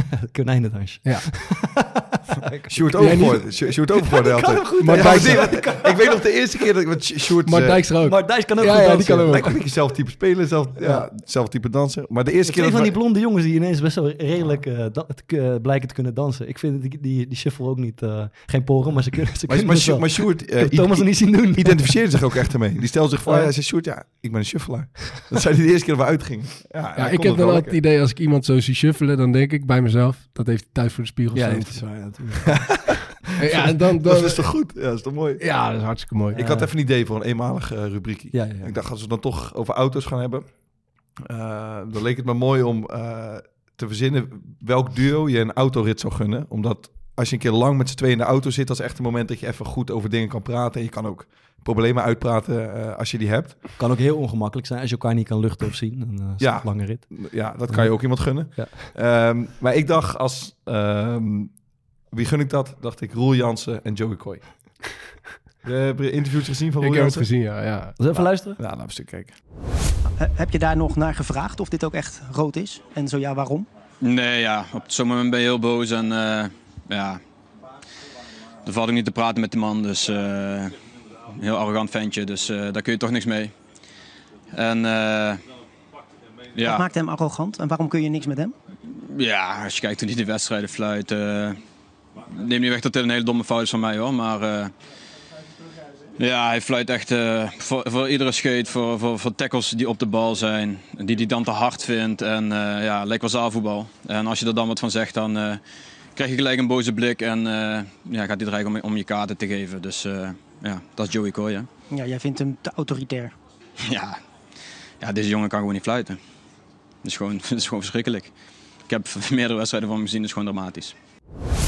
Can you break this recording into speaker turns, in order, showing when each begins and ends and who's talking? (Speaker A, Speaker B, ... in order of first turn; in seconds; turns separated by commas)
Speaker A: 0.2-6.5, Speaker B: 1.0-1.3, Speaker C: 2.7-7.9, Speaker B: 3.0-3.4, Speaker B: 4.8-5.7, Speaker B: 7.5-9.6, Speaker A: 8.0-10.0, Speaker C: 9.2-12.9, Speaker A: 10.8-11.1, Speaker A: 12.4-22.3, Speaker C: 19.5-27.8, Speaker A: 23.2-23.5, Speaker B: 26.9-32.1, Speaker A: 31.3-32.7, Speaker B: 33.4-36.6, Speaker C: 33.5-53.6, Speaker A: 36.3-36.7, Speaker A: 38.3-38.8, Speaker A: 53.8-58.9, Speaker C: 56.4-64.8, Speaker C: 65.6-67.6, Speaker B: 66.8-68.0, Speaker A: 68.0-68.6, Speaker C: 68.1-69.4, Speaker D: 70.2-73.7, Speaker E: 74.0-77.2, Speaker E: 78.6-80.8, Speaker E: 81.4-83.5, Speaker E: 84.5-85.4, Speaker E: 86.5-86.8, Speaker D: 86.6-88.5, Speaker E: 88.9-91.6, Speaker E: 92.3-94.7, Speaker E: 96.2-105.6, Speaker E: 106.1-111.7, Speaker D: 111.9-113.3, Speaker E: 113.8-114.2, Speaker E: 115.0-116.2, Speaker E: 117.0-118.3, Speaker E: 118.9-120.9